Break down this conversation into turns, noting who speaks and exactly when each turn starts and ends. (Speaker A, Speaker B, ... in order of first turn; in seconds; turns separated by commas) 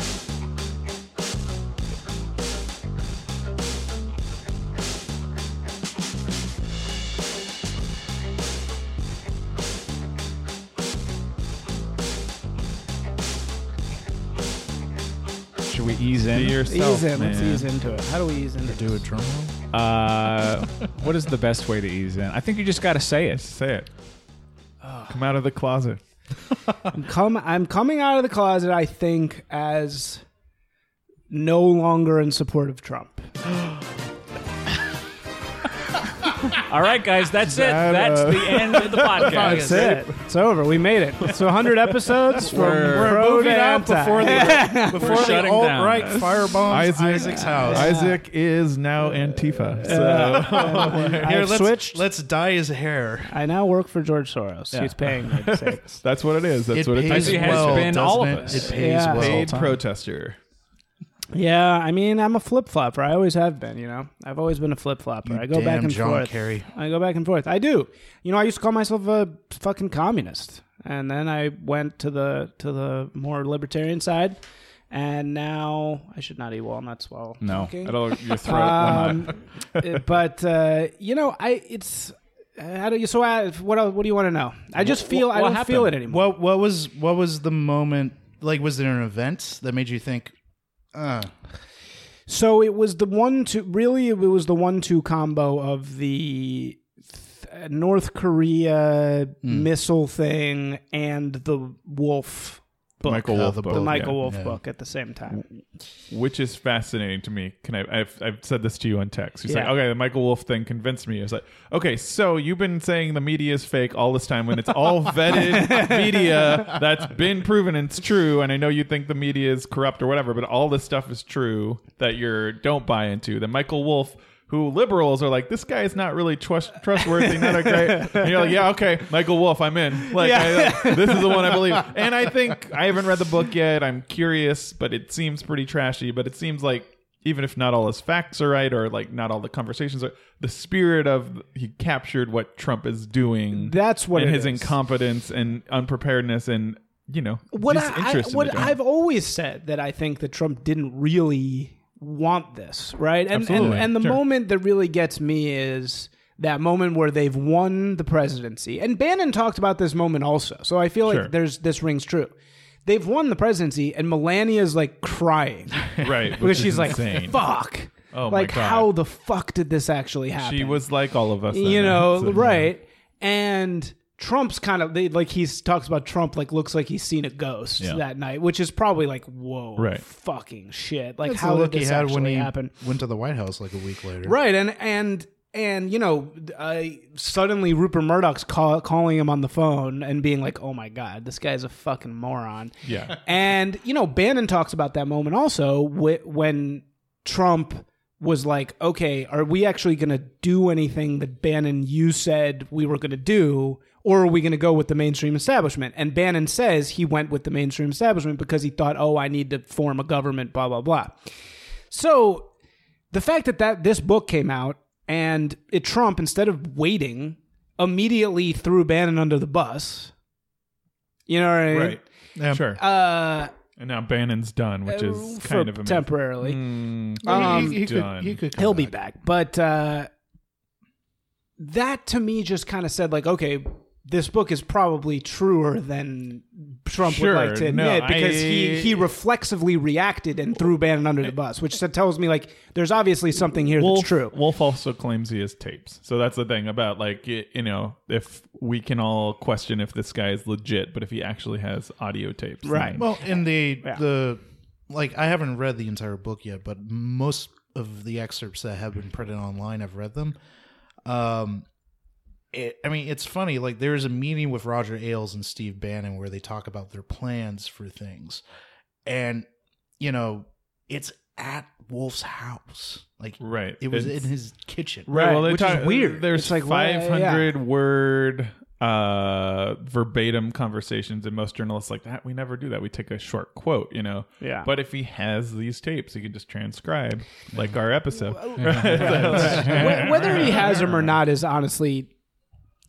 Speaker A: 15.7-16.6, Speaker B: 16.3-17.7, Speaker C: 16.6-19.0, Speaker D: 18.6-19.5, Speaker A: 19.7-23.4, Speaker B: 23.3-23.9, Speaker B: 25.1-26.0, Speaker C: 26.9-30.2, Speaker C: 31.3-33.3, Speaker A: 36.5-40.0, Speaker B: 37.4-39.6, Speaker D: 39.1-40.1, Speaker C: 39.3-45.4, Speaker A: 42.5-43.1, Speaker B: 42.5-43.1, Speaker D: 42.5-48.0, Speaker B: 44.1-51.3, Speaker A: 45.3-45.8, Speaker C: 46.1-46.6, Speaker C: 47.1-48.2, Speaker C: 49.8-52.0, Speaker D: 49.9-53.4, Speaker C: 53.3-56.0, Speaker B: 55.1-60.4, Speaker D: 56.7-59.6, Speaker A: 57.0-59.8, Speaker C: 58.5-59.3, Speaker C: 61.3-74.4, Speaker D: 65.2-66.7, Speaker C: 74.9-86.2, Speaker A: 77.4-79.3, Speaker B: 78.4-79.4, Speaker A: 84.8-86.0, Speaker D: 86.1-90.3, Speaker D: 90.9-91.3, Speaker C: 92.3-105.5, Speaker D: 99.4-99.7, Speaker B: 103.0-104.2, Speaker D: 103.3-104.6, Speaker B: 106.1-148.8, Speaker C: 109.5-109.7, Speaker C: 115.5-116.5, Speaker C: 127.2-128.6, Speaker C: 130.1-131.8, Speaker C: 143.5-144.8, Speaker C: 147.5-162.3, Speaker B: 153.3-154.2, Speaker D: 153.6-153.9, Speaker B: 161.1-161.3, Speaker C: 162.8-170.8, Speaker D: 165.8-166.3, Speaker B: 166.0-167.4, Speaker A: 166.8-167.3, Speaker B: 168.1-168.9, Speaker B: 170.4-172.6, Speaker C: 171.5-182.7, Speaker D: 172.4-172.6, Speaker B: 179.8-180.0, Speaker D: 181.2-184.3, Speaker C: 184.2-211.2, Speaker B: 192.8-193.2, Speaker C: 211.9-212.5, Speaker C: 213.1-220.1, Speaker C: 221.3-222.0, Speaker B: 221.7-222.8, Speaker D: 222.4-222.7, Speaker C: 222.7-223.5, Speaker B: 223.8-228.4, Speaker C: 224.9-226.6, Speaker C: 227.2-227.8, Speaker D: 227.2-228.9, Speaker C: 228.6-230.1, Speaker C: 231.6-244.3, Speaker B: 237.0-239.1, Speaker B: 243.8-253.0, Speaker C: 252.7-253.1, Speaker D: 253.0-260.4, Speaker D: 261.1-261.7, Speaker D: 262.5-268.4, Speaker D: 269.1-269.5, Speaker D: 270.0-275.1, Speaker B: 273.4-274.2, Speaker B: 275.1-291.1, Speaker C: 275.1-277.5, Speaker C: 284.4-284.7, Speaker C: 288.3-292.1, Speaker A: 288.6-290.3